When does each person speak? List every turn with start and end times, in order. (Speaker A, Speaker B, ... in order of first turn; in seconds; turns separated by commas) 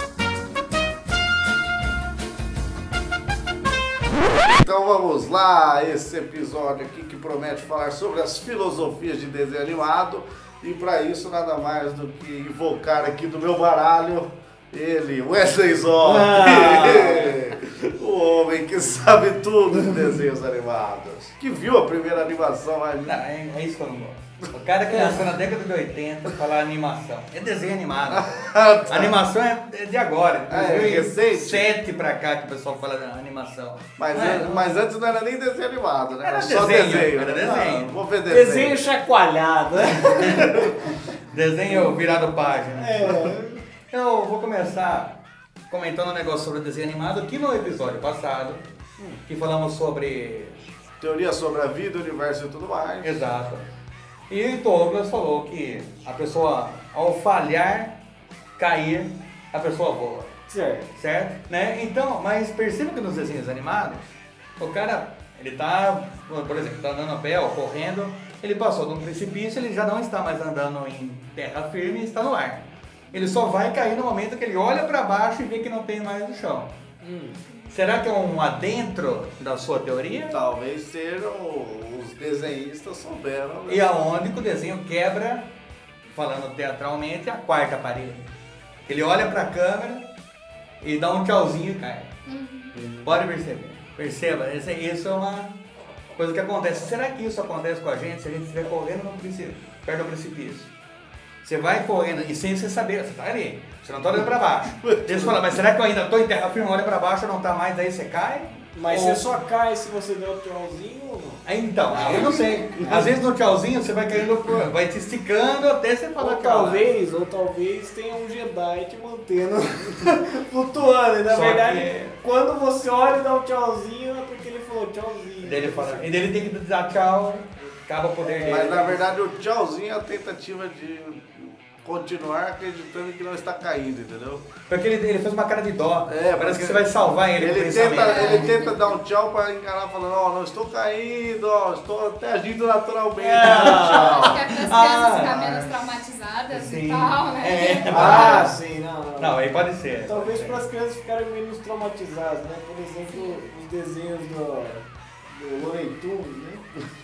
Speaker A: 4.4-23.1, Speaker B: 16.0-17.4, Speaker C: 23.0-34.8, Speaker A: 28.1-29.2, Speaker A: 30.5-31.7, Speaker A: 34.0-38.8, Speaker C: 36.2-38.0, Speaker B: 38.3-40.6, Speaker C: 40.0-40.7, Speaker C: 41.3-43.3, Speaker B: 42.8-43.6, Speaker C: 43.9-45.2, Speaker C: 45.7-48.6, Speaker C: 49.3-50.6, Speaker A: 51.0-53.2, Speaker C: 53.0-53.6, Speaker C: 54.3-58.0, Speaker C: 58.6-60.3, Speaker B: 60.5-60.9, Speaker C: 61.0-76.7, Speaker B: 77.0-77.4, Speaker C: 77.7-80.4, Speaker A: 80.3-83.9, Speaker C: 83.7-85.5, Speaker C: 86.1-88.3, Speaker C: 88.9-90.1, Speaker C: 90.8-92.1, Speaker D: 92.3-92.7, Speaker C: 93.0-95.6, Speaker C: 96.2-100.7, Speaker C: 101.4-109.3, Speaker A: 104.8-105.5, Speaker B: 108.8-111.4, Speaker C: 111.5-116.9, Speaker B: 112.0-113.1, Speaker A: 112.8-113.0, Speaker B: 116.2-126.2, Speaker C: 121.3-122.1, Speaker C: 125.4-129.0, Speaker B: 128.2-129.0, Speaker A: 128.4-134.4, Speaker C: 134.7-138.6, Speaker A: 136.1-144.4, Speaker D: 138.0-138.8, Speaker B: 143.2-144.2, Speaker C: 143.4-145.8, Speaker D: 143.9-148.4, Speaker C: 146.5-148.6, Speaker B: 147.9-149.4, Speaker C: 149.2-150.6, Speaker B: 150.1-156.7, Speaker D: 153.1-153.4